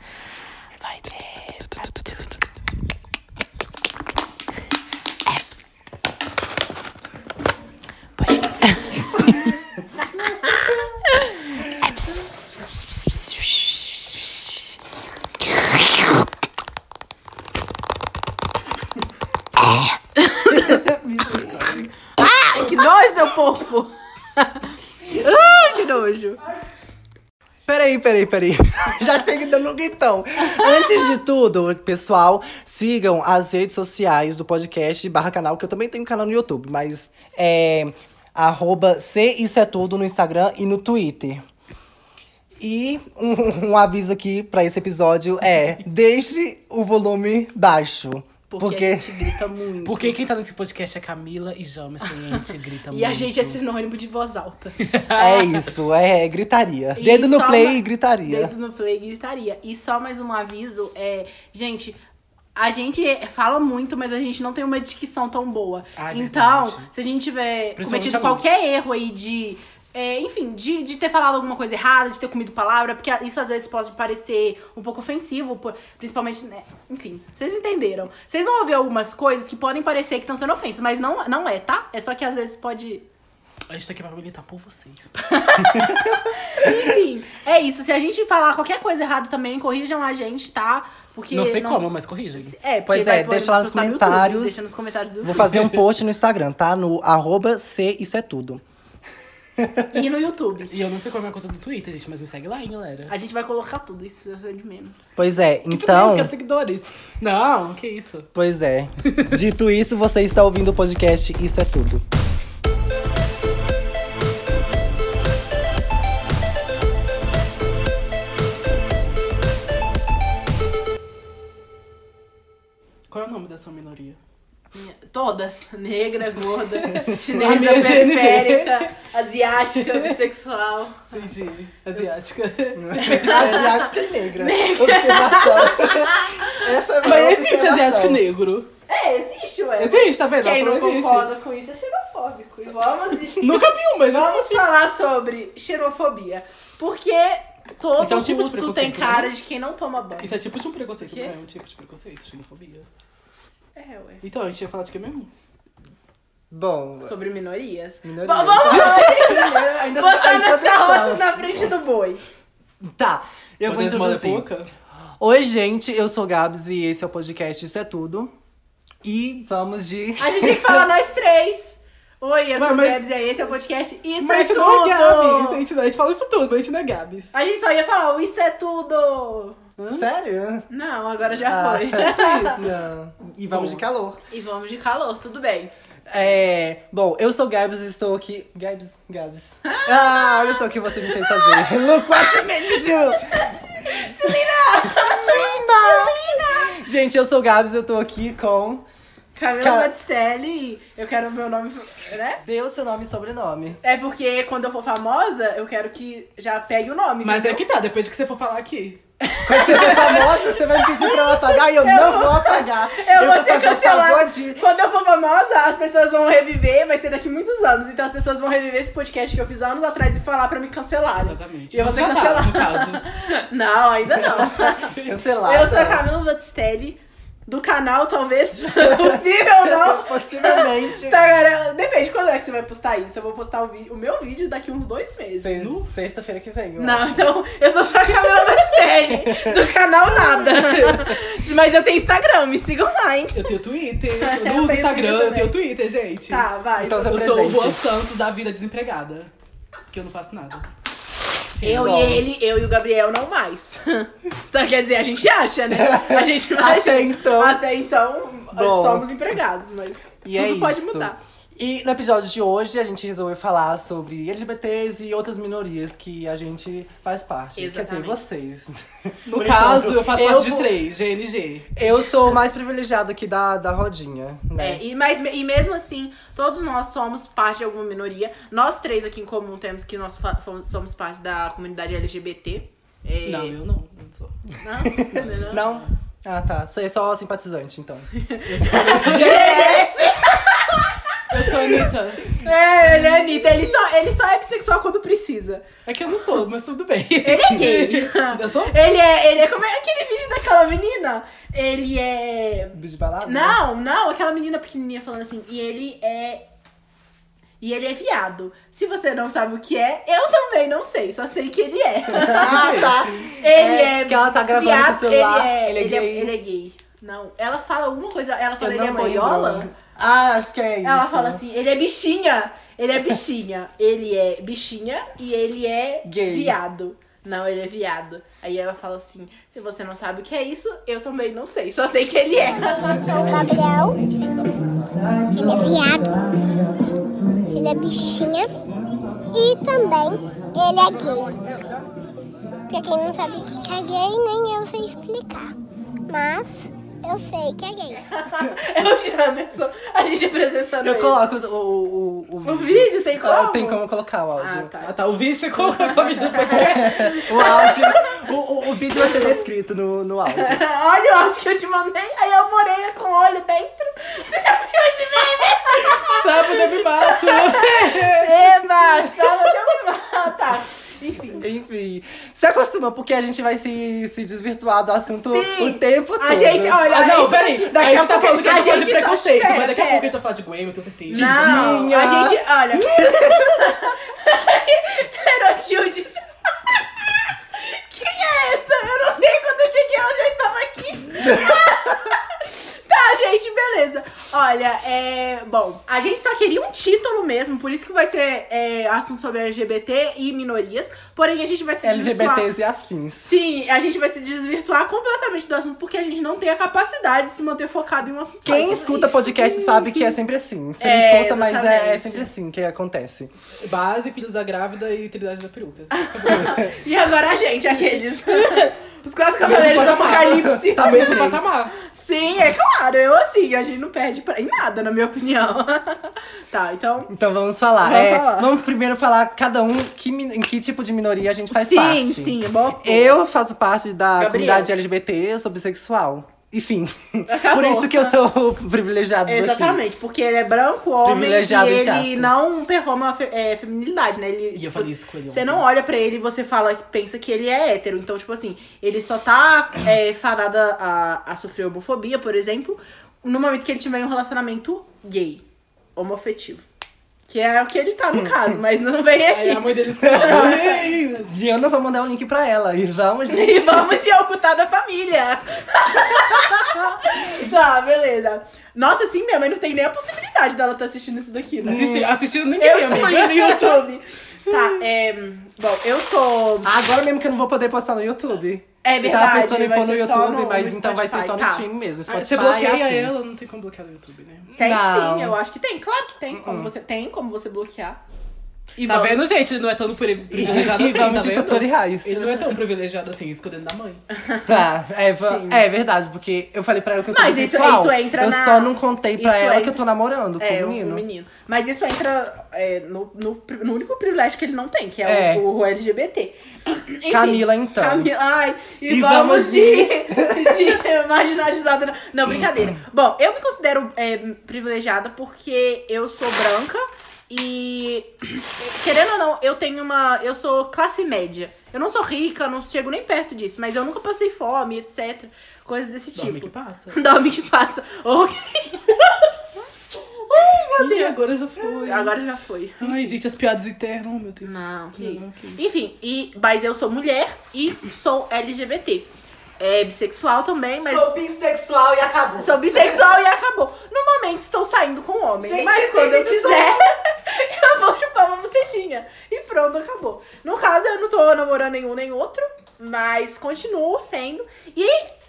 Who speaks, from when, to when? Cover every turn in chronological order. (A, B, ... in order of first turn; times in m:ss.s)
0:00.8-0:01.9 A
0:01.6-0:02.2 B
0:08.2-0:09.3 A
0:10.2-0:10.8 C
0:10.4-0:11.2 A
0:11.8-0:12.6 A
0:20.2-0:20.8 A
0:20.5-0:21.9 C
0:22.2-0:26.4 A
0:27.7-0:41.4 C
0:42.6-0:49.4 C
0:48.5-0:50.2 A
0:49.8-0:53.6 B
0:52.9-0:54.8 A
0:54.8-0:55.7 B
0:55.2-0:58.5 C
0:57.0-1:02.0 A
1:02.6-1:23.0 A
1:06.0-1:06.9 B
1:07.8-1:08.4 B
1:23.7-1:25.1 B
1:25.2-1:31.8 A
1:25.7-1:26.2 C
1:31.3-1:32.5 B
1:32.4-1:35.6 A
1:32.9-1:34.7 C
1:35.2-1:38.6 C
1:39.6-1:39.9 C
1:39.9-1:40.7 A
1:40.7-1:43.1 B
1:43.1-1:45.1 A
1:45.2-1:46.3 C
1:45.7-1:48.3 B
1:48.4-1:52.0 C
2:03.1-2:04.2 B
2:04.7-2:11.2 A
2:06.8-2:08.9 B
2:09.7-2:10.2 B
2:11.1-2:13.8 B
2:12.8-2:18.2 C
2:13.0-2:16.6 A
2:17.0-2:18.7 B
2:18.9-2:30.3 A
2:19.8-2:21.3 B
2:23.4-2:24.6 B
2:28.0-2:29.3 B
2:30.2-2:32.9 B
2:31.0-2:31.3 A
2:33.8-2:34.2 A
2:34.2-2:35.3 B
2:36.5-2:37.1 C
2:37.0-2:42.2 A
2:38.0-2:41.4 C
2:42.8-2:44.5 C
2:43.7-2:44.7 B
2:45.2-2:48.3 C
2:49.0-2:50.9 C
2:50.2-2:55.6 A
2:52.6-2:53.1 B
2:54.2-2:57.3 B
2:57.3-2:59.6 A
2:59.8-3:00.0 B
2:59.9-3:00.7 C
3:00.7-3:02.6 A
3:01.4-3:04.2 C
3:01.9-3:02.7 B
3:03.5-3:03.8 B
3:04.3-3:05.7 A
3:06.1-3:18.8 C
3:09.6-3:16.8 A
3:19.4-3:22.4 A
3:19.6-3:19.9 C
3:22.4-3:23.8 C
3:23.8-3:27.6 A
3:27.2-3:29.0 B
3:29.2-3:44.9 A
3:29.5-3:34.7 C
3:41.2-3:43.0 B
3:44.3-3:46.1 C
3:45.4-3:55.6 A
3:48.8-3:51.2 C
3:55.4-3:57.3 C
3:55.6-3:55.9 B
3:56.8-4:03.5 A
3:59.1-3:59.6 C
4:00.2-4:01.0 B
4:03.3-4:09.3 B
4:04.2-4:05.5 A
4:06.3-4:07.3 A
4:06.8-4:07.8 C
4:09.9-4:10.7 B
4:11.6-4:12.0 B
4:11.6-4:21.2 A
4:11.6-4:12.2 C
4:15.7-4:17.6 C
4:18.5-4:19.1 C
4:20.2-4:30.7 C
4:27.6-4:28.2 A
4:29.3-4:31.8 B
4:31.8-4:34.8 C
4:34.6-4:43.6 A
4:43.2-4:44.6 B
4:44.6-4:45.6 A
4:44.9-4:48.1 C
4:45.1-4:45.9 B
4:48.2-4:50.7 A
4:48.5-4:49.8 B
4:48.7-4:50.8 C
4:51.3-4:52.4 B
4:51.5-4:55.6 A
4:52.8-4:53.8 C
4:55.9-4:58.8 B
4:57.2-5:06.5 A
5:02.7-5:03.6 C
5:07.6-5:19.7 A
5:12.1-5:16.3 C
5:12.4-5:13.3 B
5:18.6-5:21.4 C
5:20.8-5:33.6 A
5:26.0-5:26.6 C
5:32.5-5:34.0 D
5:35.3-5:36.4 D
5:37.5-5:38.5 D
5:39.3-5:41.4 D
5:42.7-5:45.5 D
5:46.1-5:48.0 D
5:48.1-5:51.2 A
5:50.8-5:54.7 C
5:52.4-5:53.8 A
5:54.4-5:54.9 A
5:54.8-5:57.2 B
5:55.6-5:58.2 A
5:56.4-6:00.6 C
5:58.9-5:59.4 A
6:00.3-6:11.5 A
6:05.8-6:08.5 B
6:11.4-6:17.1 C
6:15.1-6:20.1 A
6:16.9-6:21.8 B
6:17.7-6:18.8 C
6:21.1-6:42.5 A
6:21.1-6:23.6 C
6:31.3-6:31.6 C
6:41.8-6:43.4 C
6:43.3-6:50.2 A
6:48.4-6:53.3 C
6:50.8-6:52.3 A
6:53.6-6:56.7 B
6:55.9-7:07.1 A
6:58.3-6:58.7 B
6:59.4-7:01.7 B
6:59.4-7:01.5 C
7:07.1-7:19.8 C
7:07.8-7:08.5 A
7:11.5-7:13.2 A
7:14.2-7:14.7 A
7:17.3-7:18.2 A
7:19.3-7:35.4 A
7:21.0-7:22.4 C
7:24.6-7:25.6 B
7:36.0-7:36.6 A
7:37.3-7:40.5 A
7:39.3-7:40.9 B
7:40.0-7:43.9 C
7:43.3-7:51.9 A
7:51.6-7:52.1 C
7:51.7-7:53.9 B
7:52.6-7:56.7 A
7:54.5-7:54.8 B
7:56.6-8:03.2 C
7:58.8-8:01.7 A
8:02.1-8:04.5 B
8:04.5-8:05.4 C
8:04.6-8:08.0 A
8:06.3-8:06.7 C
8:08.8-8:09.2 A
8:08.8-8:14.0 B
8:10.3-8:12.3 C
8:14.1-8:14.6 A
8:14.5-8:21.0 C
8:15.3-8:15.6 A
8:17.1-8:19.8 A
8:20.4-8:49.4 A
8:25.0-8:25.4 C
8:27.1-8:28.1 C
8:28.9-8:30.8 C
8:32.4-8:32.7 C
8:46.2-8:47.0 B
8:50.3-8:52.2 B
8:50.3-8:53.1 A
8:52.8-8:55.6 B
8:54.4-9:01.1 A
9:00.8-9:03.1 C
9:02.4-9:15.1 A
9:05.4-9:06.8 C